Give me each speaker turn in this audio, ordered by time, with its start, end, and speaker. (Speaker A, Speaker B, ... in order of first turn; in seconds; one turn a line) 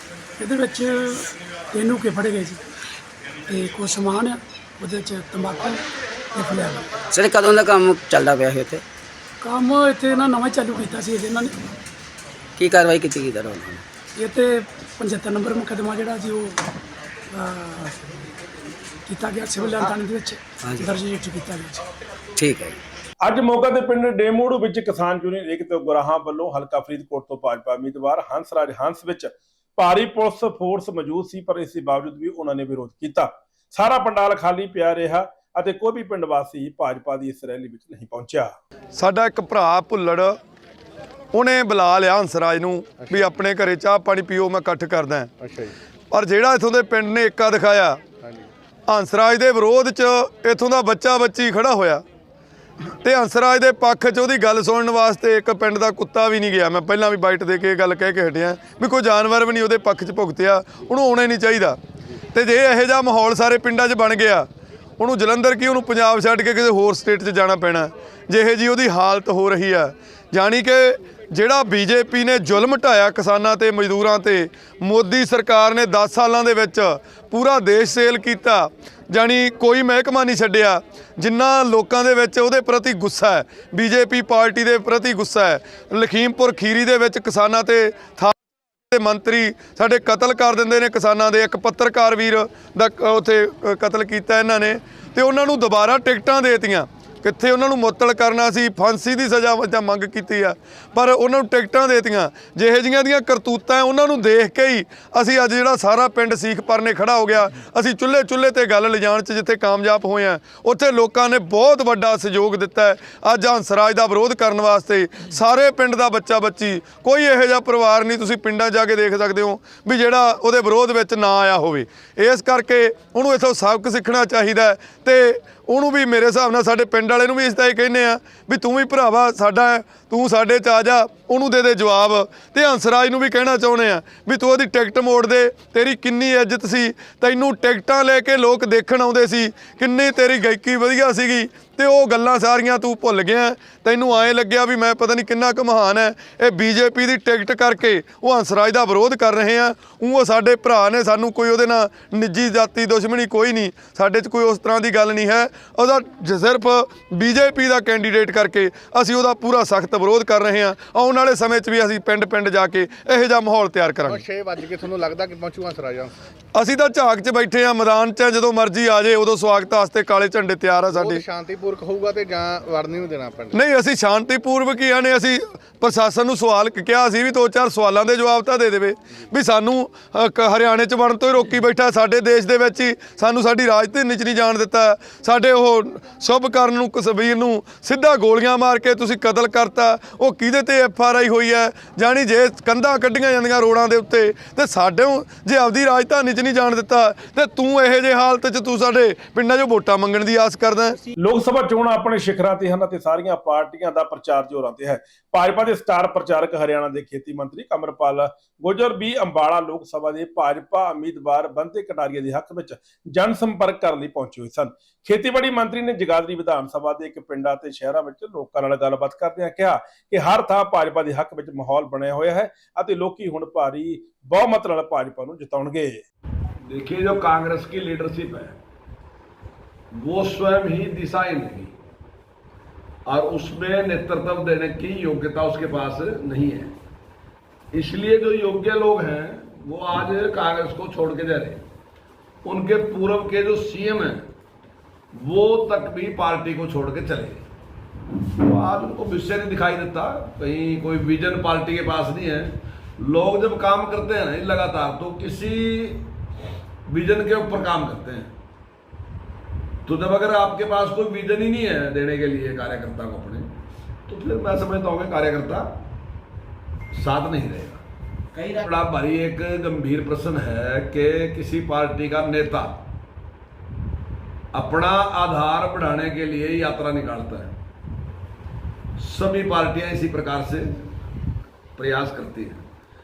Speaker A: 0.4-2.6
Speaker A: 3.5-5.8
Speaker A: 6.3-7.0
Speaker B: 7.1-8.8
Speaker A: 9.4-11.6
Speaker B: 12.6-13.8
Speaker A: 14.2-16.6
Speaker A: 17.3-18.0
Speaker A: 19.1-21.8
Speaker B: 20.6-20.9
Speaker B: 22.4-22.8
Speaker C: 23.2-38.6
Speaker D: 38.9-40.4
Speaker D: 41.3-45.3
Speaker E: 43.0-43.3
Speaker E: 45.4-45.8
Speaker D: 46.1-48.0
Speaker E: 48.2-48.5
Speaker D: 48.9-52.0
Speaker D: 52.9-61.8
Speaker D: 62.3-88.4
Speaker D: 88.9-164.2
Speaker E: 164.1-166.1
Speaker D: 166.6-171.2
Speaker E: 170.9-173.6
Speaker D: 173.5-201.0
Speaker C: 201.2-226.0
Speaker F: 226.7-228.6
Speaker F: 229.9-231.8
Speaker F: 233.1-236.7
Speaker F: 237.7-241.6
Speaker F: 242.4-244.3
Speaker F: 245.1-247.4
Speaker F: 248.4-256.1
Speaker F: 256.9-258.3
Speaker F: 259.9-263.5
Speaker F: 264.1-265.7
Speaker F: 266.9-267.8
Speaker B: 268.4-268.6
Speaker F: 268.5-272.8
Speaker F: 274.5-277.5
Speaker F: 279.0-280.9
Speaker F: 281.8-282.6